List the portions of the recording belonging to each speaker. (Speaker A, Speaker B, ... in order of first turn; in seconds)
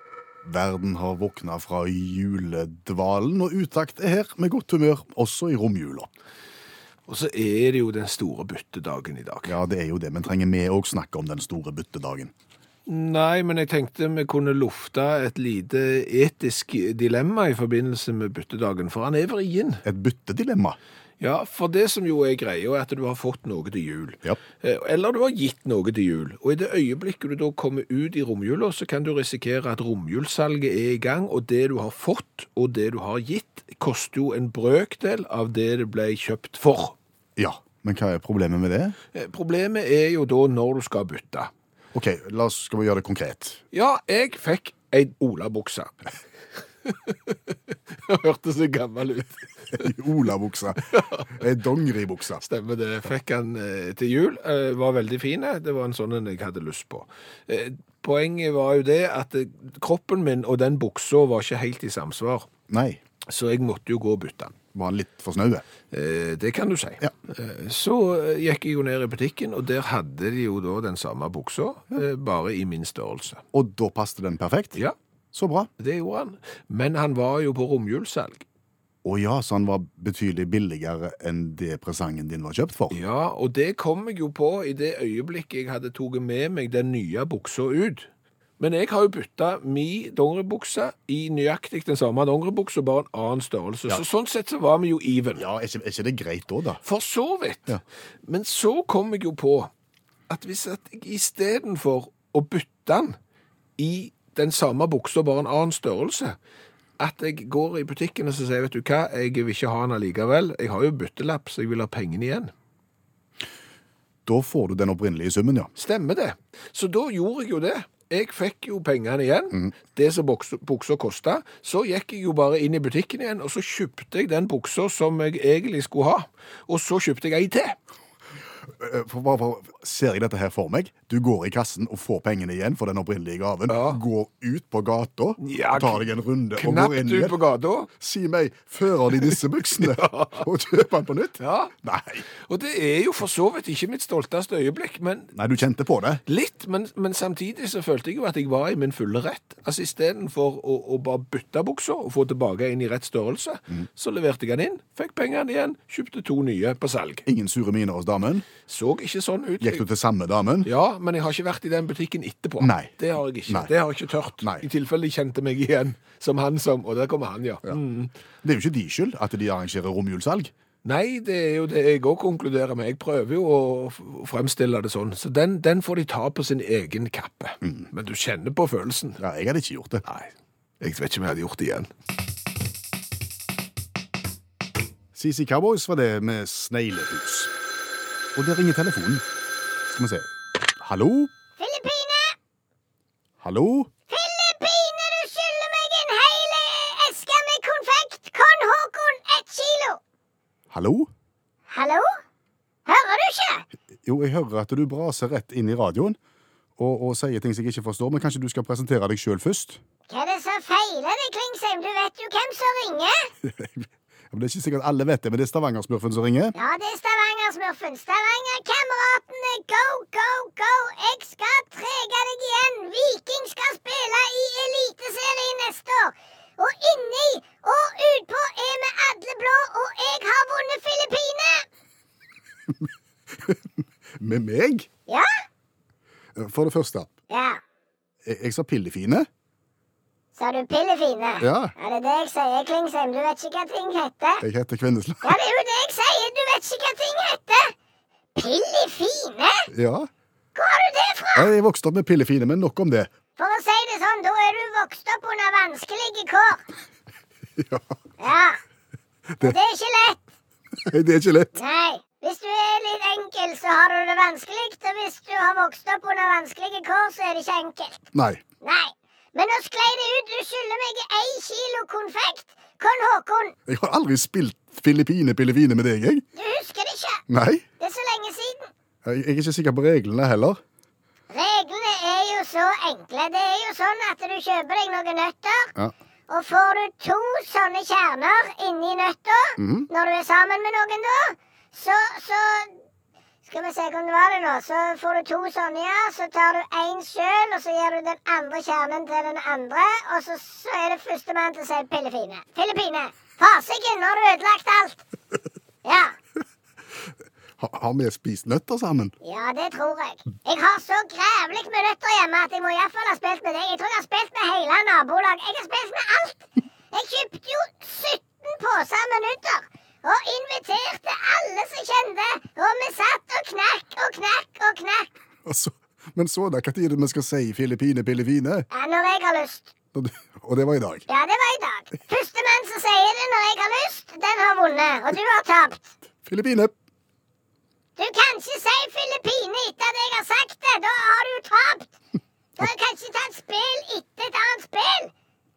Speaker A: 0.4-6.1, 9.5-12.3, 19.8-20.8, 37.4-39.0, 41.9-43.6, 49.7-52.4, 62.7-63.0, 64.7-65.7, 73.5-74.8, 75.3-75.7, 79.0-83.0, 95.4-96.8, 114.3-115.7, 128.7-137.4, 137.9-142.2, 145.3-146.2, 157.3-158.5, 159.6-160.7, 162.6-162.9, 163.5-163.7, 168.4-170.5, 177.6-177.9, 179.2-180.1, 185.2-187.5, 188.3-189.2, 189.9-191.3, 193.4-193.9, 200.7-201.1, 204.0-206.2, 206.8-209.8, 213.4-216.5, 232.8-234.9, 236.4-237.1, 238.2-239.3, 241.4-241.7, 244.4-245.4, 249.7-250.1, 251.4-253.1, 257.6-257.9, 259.3-259.6, 260.9-261.6, 268.1-268.4, 273.7-276.2, 277.3-277.6, 279.0-280.6, 289.6-289.9, 307.6-309.1, 325.4-328.7, 329.9-331.1, 336.2-336.7
Speaker B: 7.1-9.5, 12.9-19.8, 21.2-37.0, 39.1-41.5, 43.7-46.1, 46.9-49.9, 50.9-51.3, 52.4-62.5, 63.2-64.5, 65.9-73.4, 75.8-78.5, 82.9-95.5, 96.8-99.7, 100.3-103.2, 103.8-106.4, 107.0-112.5, 115.8-127.8, 133.7-134.0, 135.4-137.9, 139.2-140.5, 141.4-141.7, 142.3-145.3, 146.3-157.2, 158.7-159.8, 160.6-168.1, 170.8-179.2, 180.1-181.9
Speaker C: 191.6-192.4, 194.1-200.0, 201.7-202.1, 202.9-203.7, 210.1-213.3, 216.6-231.7, 237.3-237.6, 240.4-244.4, 245.2-247.8, 248.4-249.7, 250.6-251.5, 253.4-256.6, 258.2-258.6, 259.4-260.2, 261.6-268.1, 268.6-273.6, 276.4-277.2, 277.8-278.7, 281.3-285.7, 286.3-292.8, 293.4-305.0, 305.9-306.1, 309.2-325.1, 328.7-329.7, 331.1-335.9, 338.0-341.9, 342.6-345.1